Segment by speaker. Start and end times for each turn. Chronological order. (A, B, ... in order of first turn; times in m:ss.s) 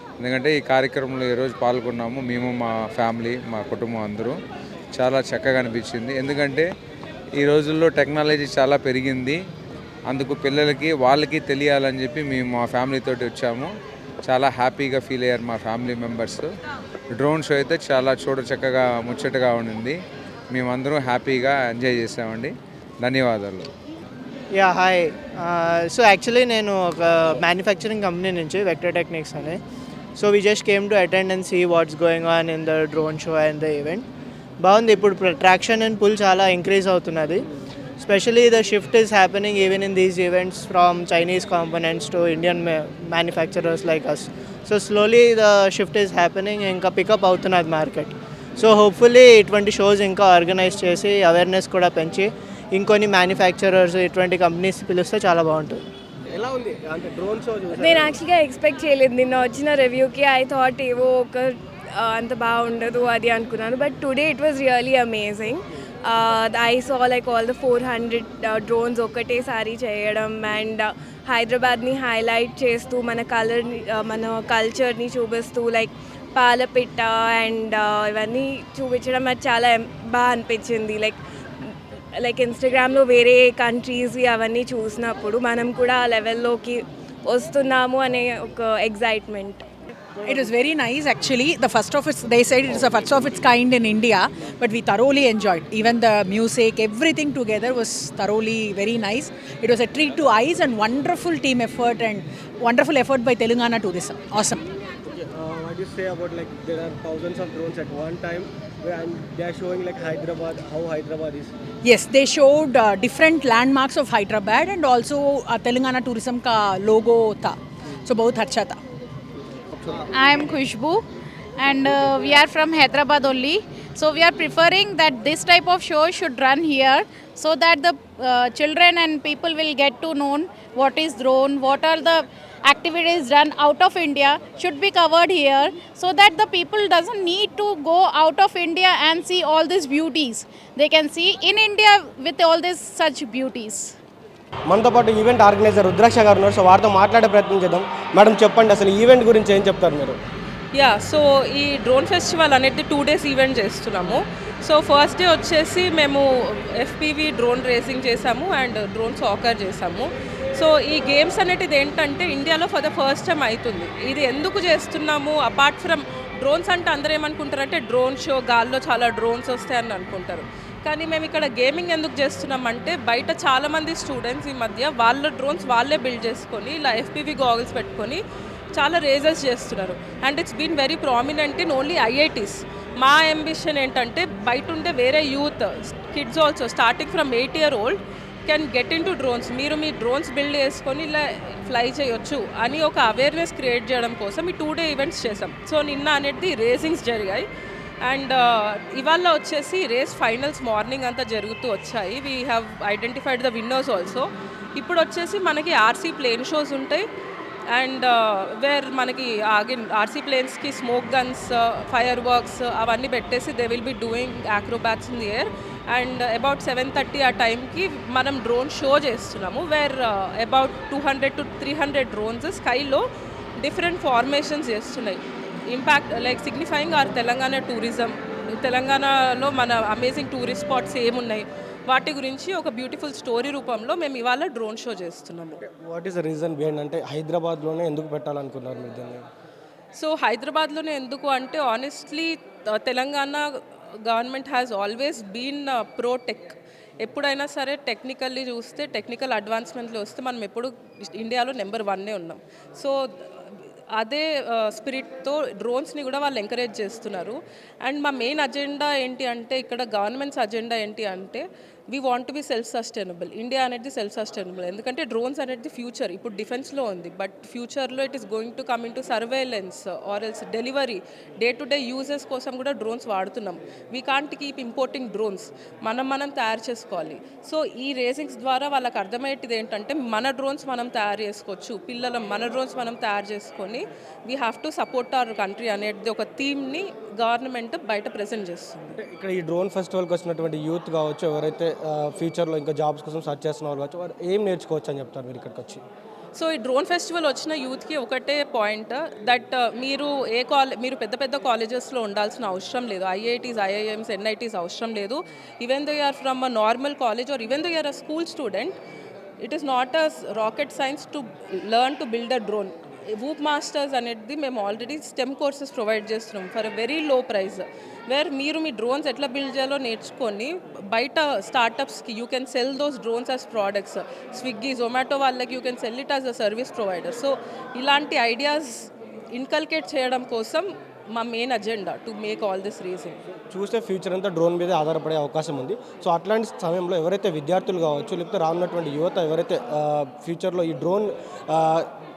0:00.2-0:04.3 A
0:04.9-0:06.7 A
0:07.4-0:09.4 A
0:10.1-0:13.7 A
0:14.2-0:16.5 A
0:17.2-0:20.0 A
0:20.5-0:23.7 A
0:24.7-0:29.6 B
0:27.5-0:28.0 C
0:28.7-0:29.0 C
0:30.2-0:34.0 B
0:30.5-0:31.2 C
0:34.6-0:37.4 B
0:38.0-0:47.1 B
0:41.9-0:42.7 C
0:43.3-0:43.8 C
0:44.8-0:48.1 C
0:48.6-0:49.0 B
0:48.9-0:52.2 C
0:51.2-0:52.9 B
0:52.8-0:54.1 C
0:54.0-0:54.7 B
0:54.6-0:55.7 C
0:55.3-0:55.7 B
0:56.3-0:58.2 D
0:57.7-1:29.6 C
1:30.2-1:44.6 E
1:45.0-1:51.5 D
1:51.8-1:57.6 E
1:58.1-1:58.8 E
2:00.1-2:01.0 F
2:01.6-2:23.9 F
2:24.7-2:30.2 D
2:30.7-2:58.2 G
2:58.7-3:17.5 G
3:18.0-3:27.0 G
3:27.7-3:43.0 G
3:43.6-3:55.6 G
3:55.6-3:59.2 D
3:59.9-4:13.0 G
4:13.9-4:49.0 G
4:48.9-4:55.8 D
4:56.3-5:08.8 G
5:09.4-5:33.2 G
5:33.3-5:41.9 D